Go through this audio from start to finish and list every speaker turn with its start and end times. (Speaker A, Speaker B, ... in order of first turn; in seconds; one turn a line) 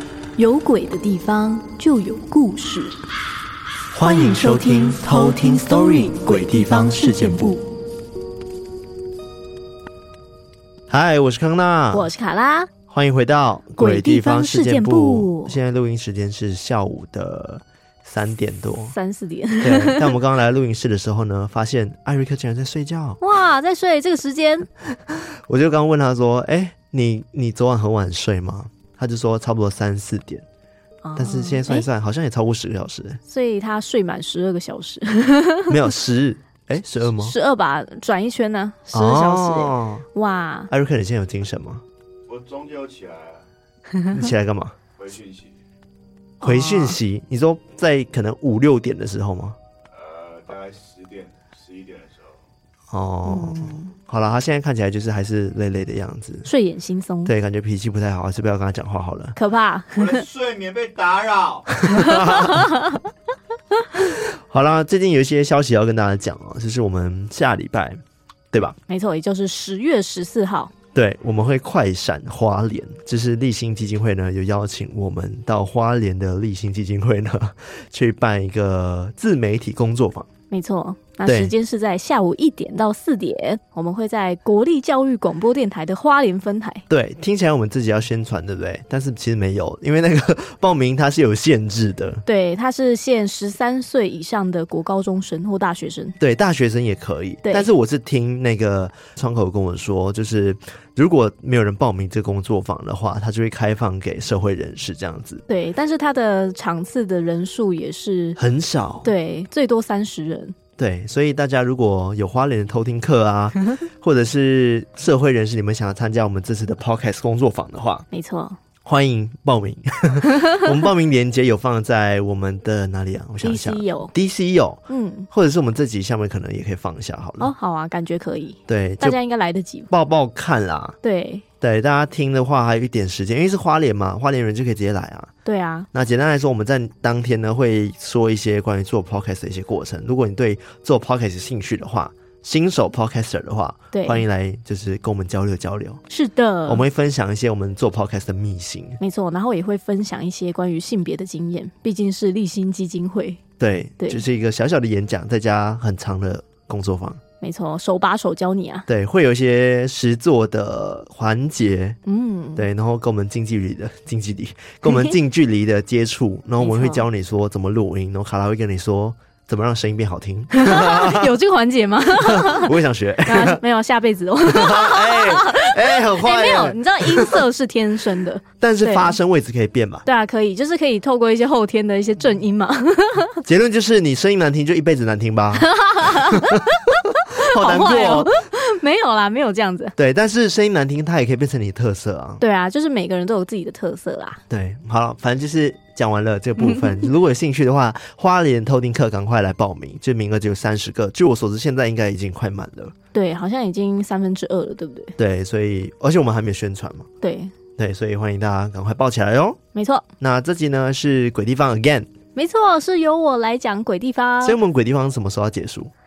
Speaker A: 0.4-3.0
Speaker B: 3.9-7.6
Speaker A: 4.0-7.6
Speaker B: 10.9-12.1
Speaker A: 11.9-12.7
Speaker B: 12.9-18.9
Speaker A: 13.8-15.6
Speaker A: 18.9-20.1
Speaker B: 19.6-23.2
Speaker A: 23.2-24.7
Speaker B: 25.1-30.4
Speaker A: 31.0-31.9
Speaker B: 31.2-33.2
Speaker A: 33.3-35.8
Speaker B: 35.7-37.3
Speaker A: 37.2-40.7
Speaker B: 38.9-40.0
Speaker B: 40.7-41.8
Speaker C: 42.3-43.4
Speaker B: 44.1-44.8
Speaker C: 45.0-45.5
Speaker A: 46.4-47.0
Speaker B: 46.4-49.6
Speaker C: 49.9-52.3
Speaker B: 52.9-56.5
Speaker A: 53.3-53.9
Speaker A: 56.5-57.3
Speaker B: 57.2-59.4
Speaker A: 59.4-60.2
Speaker C: 59.9-61.8
Speaker B: 61.8-62.8
Speaker A: 61.9-63.0
Speaker B: 63.9-68.0
Speaker B: 68.5-68.8
Speaker A: 68.9-70.7
Speaker B: 70.9-80.3
Speaker A: 80.5-86.8
Speaker B: 81.2-81.5
Speaker B: 86.9-92.2
Speaker A: 92.2-96.2
Speaker B: 96.2-105.4
Speaker A: 97.4-97.7
Speaker A: 105.5-108.4
Speaker B: 108.4-109.1
Speaker A: 109.0-110.5
Speaker B: 110.8-118.0
Speaker A: 118.1-118.6
Speaker B: 118.8-127.5
Speaker A: 123.4-124.1
Speaker A: 124.9-125.3
Speaker A: 127.4-129.9
Speaker B: 128.7-129.2
Speaker B: 129.9-131.0
Speaker A: 131.0-131.4
Speaker B: 131.6-135.3
Speaker A: 135.4-135.9
Speaker B: 135.9-146.0
Speaker A: 143.9-144.2
Speaker A: 146.1-146.8
Speaker B: 146.7-149.0
Speaker A: 149.0-153.4
Speaker B: 153.6-157.2
Speaker A: 157.4-158.9
Speaker B: 158.9-162.0
Speaker A: 162.1-162.7
Speaker B: 162.6-171.3
Speaker A: 164.9-165.1
Speaker A: 166.6-167.1
Speaker A: 170.5-179.2
Speaker B: 172.2-173.6
Speaker B: 174.4-177.4
Speaker B: 178.6-180.1
Speaker A: 180.1-183.4
Speaker B: 183.4-186.7
Speaker A: 185.5-189.9
Speaker B: 187.3-188.4
Speaker B: 190.0-192.4
Speaker A: 192.4-194.4
Speaker B: 194.5-202.9
Speaker A: 196.6-196.9
Speaker A: 203.1-205.2
Speaker B: 205.2-207.1
Speaker A: 207.2-207.6
Speaker B: 207.8-209.6
Speaker A: 209.7-210.1
Speaker B: 210.2-212.1
Speaker A: 212.4-214.6
Speaker B: 214.4-215.9